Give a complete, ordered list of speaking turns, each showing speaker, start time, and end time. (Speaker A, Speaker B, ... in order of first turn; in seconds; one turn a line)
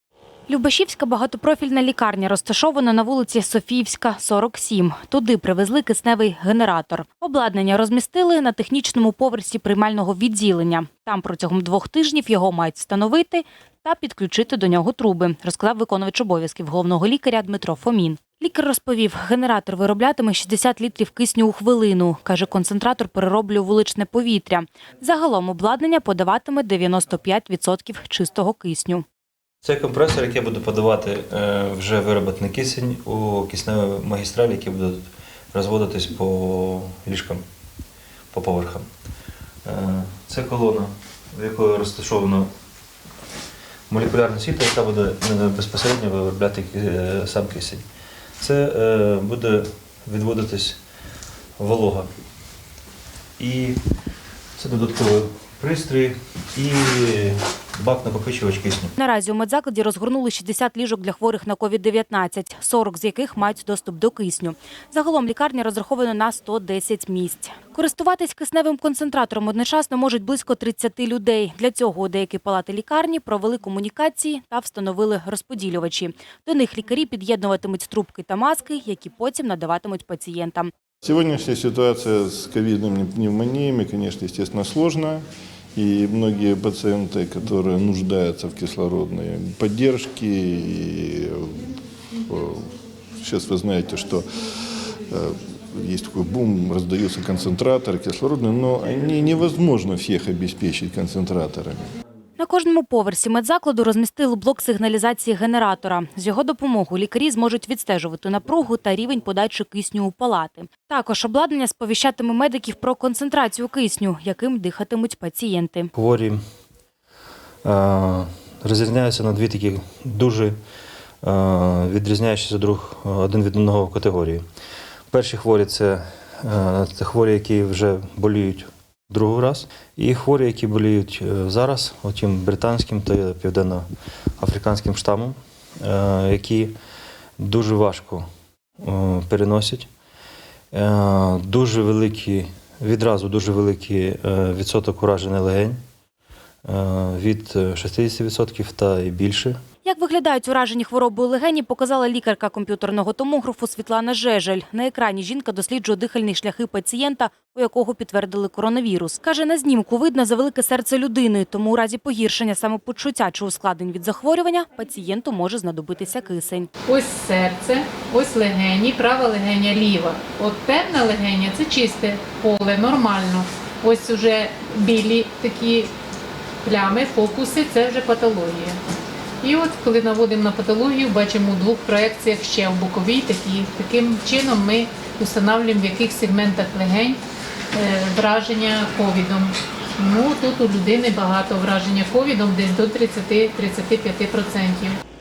Speaker A: 0.5-29.0
Speaker B: 29.6-37.4
Speaker B: 38.3-38.8
Speaker B: 39.6-42.5
Speaker B: 43.9-47.8
Speaker B: 48.4-50.8
Speaker B: 51.6-52.1
Speaker B: 53.4-53.8
Speaker B: 54.6-58.9
Speaker A: 59.0-80.7
Speaker C: 81.0-85.2
Speaker C: 85.8-91.7
Speaker C: 92.3-92.7
Speaker C: 93.2-94.2
Speaker C: 95.1-101.8
Speaker A: 102.4-115.9
Speaker B: 115.9-116.4
Speaker B: 117.6-120.5
Speaker B: 121.2-124.4
Speaker B: 125.1-133.9
Speaker B: 134.4-136.7
Speaker B: 137.4-138.2
Speaker B: 138.8-139.9
Speaker B: 140.7-145.8
Speaker B: 146.6-149.6
Speaker A: 149.8-166.7
Speaker D: 166.9-175.9
Speaker D: 176.6-178.8
Speaker D: 179.4-187.2
Speaker D: 187.7-195.0